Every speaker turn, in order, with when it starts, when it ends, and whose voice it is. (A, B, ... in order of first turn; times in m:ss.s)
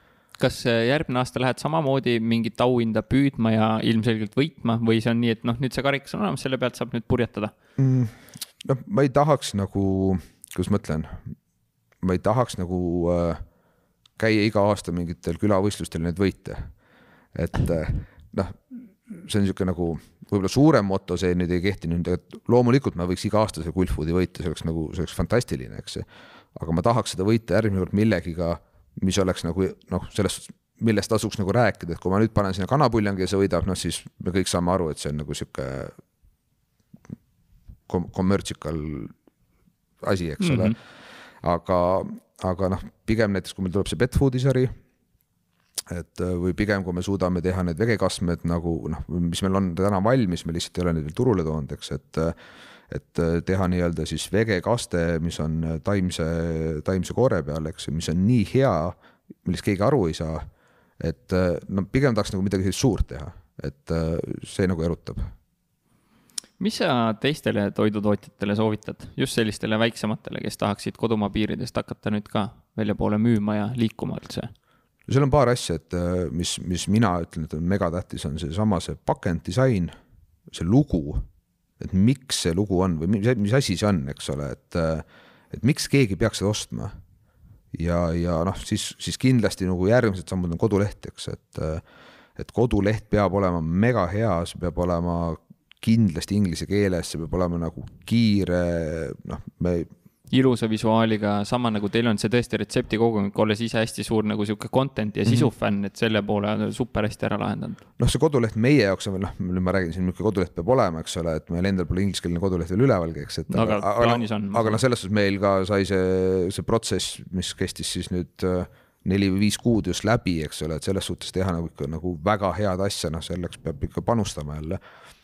0:00.4-0:07.5 A
0:07.8-0:11.2 B
0:12.0-0:13.4 B
0:14.2-0:16.7 B
0:17.4-0:36.0 B
0:37.9-0:39.1 B
0:40.0-0:40.8 B
0:40.4-0:40.8 A
0:41.4-0:44.7 B
0:45.9-0:52.4 B
0:52.9-1:00.4 B
1:01.0-1:05.3 B
1:06.6-1:14.5 A
1:15.1-1:19.9 B
1:20.5-1:21.2 B
1:21.8-1:27.0 B
1:27.7-1:31.8 B
1:32.4-1:39.9 B
1:40.3-1:47.8 A
1:48.0-2:04.8 B
1:53.5-1:54.8 A